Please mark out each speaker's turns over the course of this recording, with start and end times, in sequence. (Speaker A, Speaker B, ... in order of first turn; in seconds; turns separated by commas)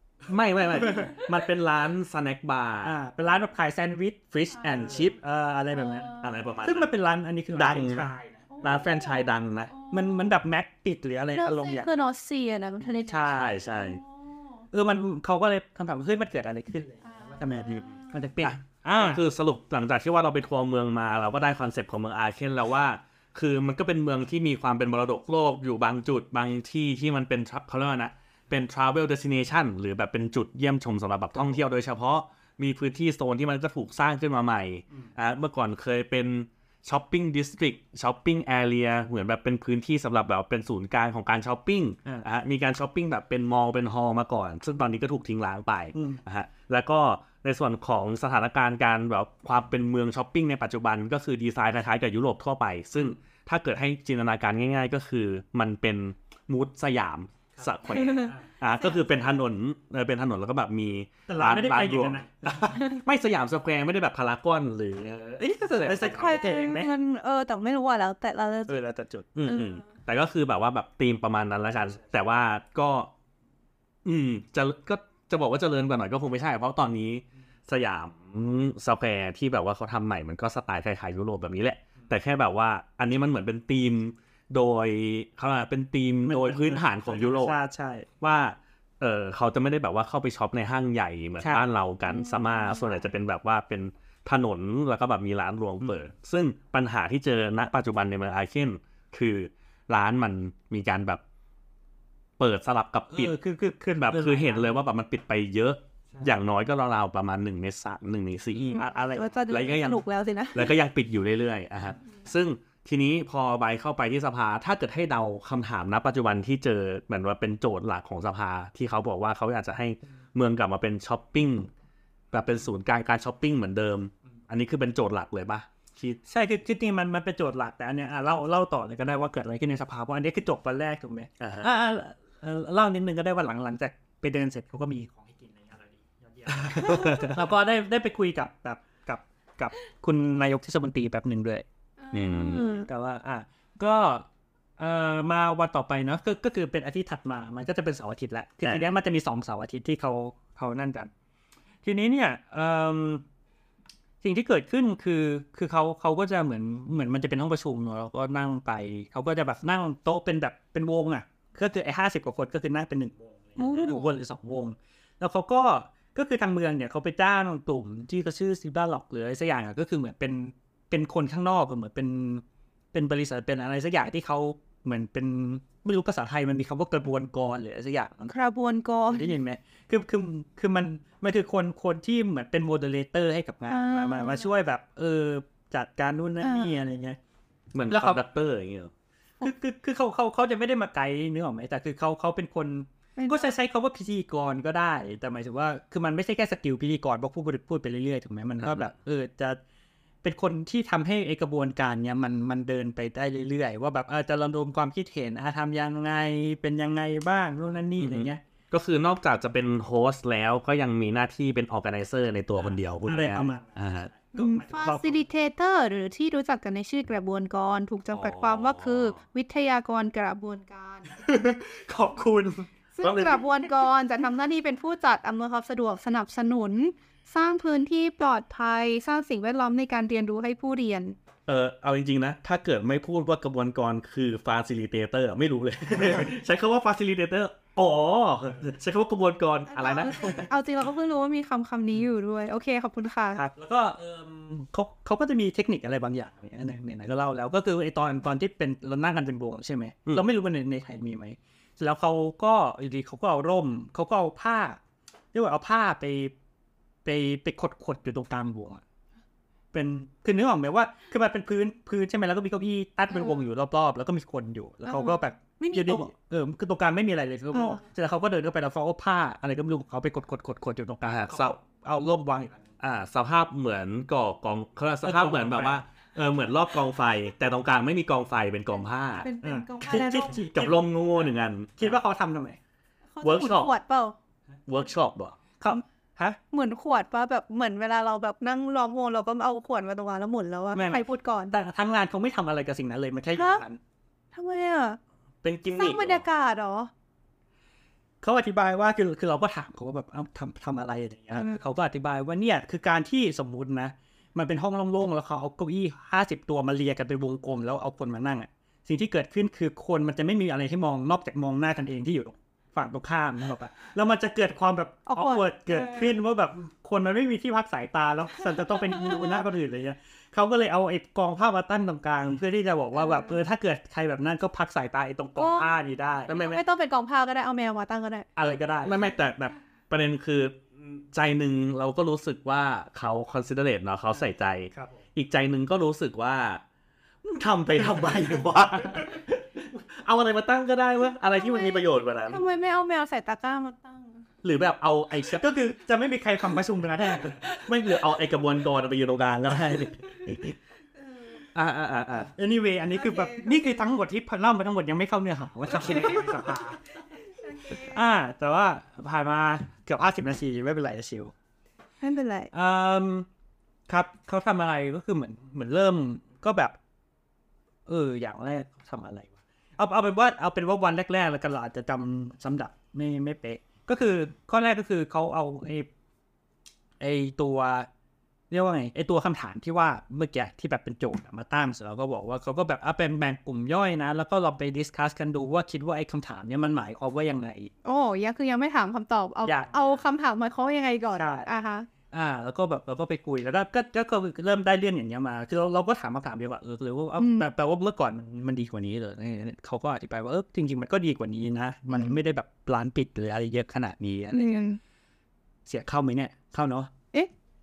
Speaker A: 0.3-2.9, Speaker B: 2.8-8.5, Speaker A: 4.3-5.1, Speaker A: 6.2-6.9, Speaker A: 7.5-8.1, Speaker C: 8.5-10.4, Speaker A: 8.6-9.7, Speaker B: 9.9-11.9, Speaker C: 11.3-14.6, Speaker B: 13.1-13.6, Speaker A: 13.3-14.0, Speaker B: 14.7-19.2, Speaker C: 17.0-18.1, Speaker A: 17.6-66.4, Speaker B: 46.0-46.2, Speaker B: 57.6-58.4, Speaker C: 57.9-58.3, Speaker B: 61.3-62.8, Speaker B: 65.4-66.9, Speaker C: 66.0-68.8, Speaker B: 68.7-69.3, Speaker A: 69.4-73.1, Speaker C: 69.5-69.8, Speaker A: 74.0-87.5, Speaker B: 86.4-88.1, Speaker A: 88.2-101.2, Speaker C: 92.4-92.8, Speaker A: 102.4-103.3, Speaker B: 103.1-104.7, Speaker A: 104.0-108.8, Speaker B: 108.7-109.3, Speaker C: 109.2-110.7, Speaker A: 109.5-110.0, Speaker A: 110.5-121.7, Speaker A: 122.3-126.2, Speaker B: 126.3-141.7, Speaker A: 131.4-131.7, Speaker A: 136.6-137.3, Speaker C: 142.0-142.9, Speaker A: 142.1-142.7, Speaker B: 142.8-144.2, Speaker B: 144.8-151.1, Speaker B: 151.8-153.2, Speaker B: 154.2-178.3, Speaker C: 163.6-163.9, Speaker A: 163.7-163.9, Speaker C: 178.3-179.3, Speaker B: 179.1-187.2, Speaker C: 183.7-184.5, Speaker C: 186.4-186.7, Speaker A: 187.7-188.9, Speaker B: 187.9-188.2, Speaker B: 189.4-199.6, Speaker C: 193.2-193.5, Speaker B: 200.2-208.4, Speaker A: 208.0-214.1, Speaker B: 213.1-215.2, Speaker C: 214.4-221.1, Speaker A: 218.1-219.2, Speaker B: 221.2-222.7, Speaker C: 223.0-231.2, Speaker A: 223.0-223.4, Speaker A: 231.5-240.5, Speaker C: 239.7-243.4, Speaker B: 243.4-254.8, Speaker B: 255.3-256.3, Speaker B: 257.1-258.8, Speaker B: 259.7-272.6, Speaker C: 264.9-266.1, Speaker C: 267.5-267.8, Speaker A: 271.1-271.6, Speaker A: 272.8-279.3, Speaker B: 275.0-275.8, Speaker C: 279.2-280.4, Speaker B: 279.4-280.7, Speaker A: 279.9-281.9, Speaker B: 281.8-282.6, Speaker C: 283.1-284.2, Speaker A: 283.2-283.7, Speaker A: 284.7-285.4, Speaker B: 285.6-286.4, Speaker C: 286.5-291.5, Speaker B: 290.8-293.8, Speaker C: 293.4-293.6, Speaker C: 294.3-295.0, Speaker A: 295.4-296.2, Speaker C: 295.7-296.9, Speaker B: 298.2-326.3, Speaker C: 315.1-316.1, Speaker C: 318.7-319.3, Speaker C: 325.4-325.8, Speaker A: 326.3-326.6, Speaker C: 326.3-328.3, Speaker B: 328.4-328.9, Speaker A: 328.9-336.6, Speaker A: 337.2-342.4, Speaker C: 341.4-344.2, Speaker A: 344.4-345.5, Speaker B: 345.3-347.4, Speaker A: 347.4-350.5, Speaker C: 351.1-351.4, Speaker A: 351.5-352.3, Speaker B: 352.3-356.8, Speaker C: 353.0-353.6, Speaker C: 355.9-356.3, Speaker C: 357.4-358.0, Speaker B: 357.7-361.3, Speaker C: 362.0-362.5, Speaker B: 362.5-363.3, Speaker B: 363.9-366.8, Speaker B: 367.9-375.9, Speaker B: 377.0-377.9, Speaker B: 378.5-387.7, Speaker C: 387.9-391.9, Speaker B: 389.5-389.7, Speaker B: 391.2-391.5, Speaker B: 392.1-404.5, Speaker C: 397.2-397.5, Speaker C: 404.3-404.8, Speaker B: 405.7-406.9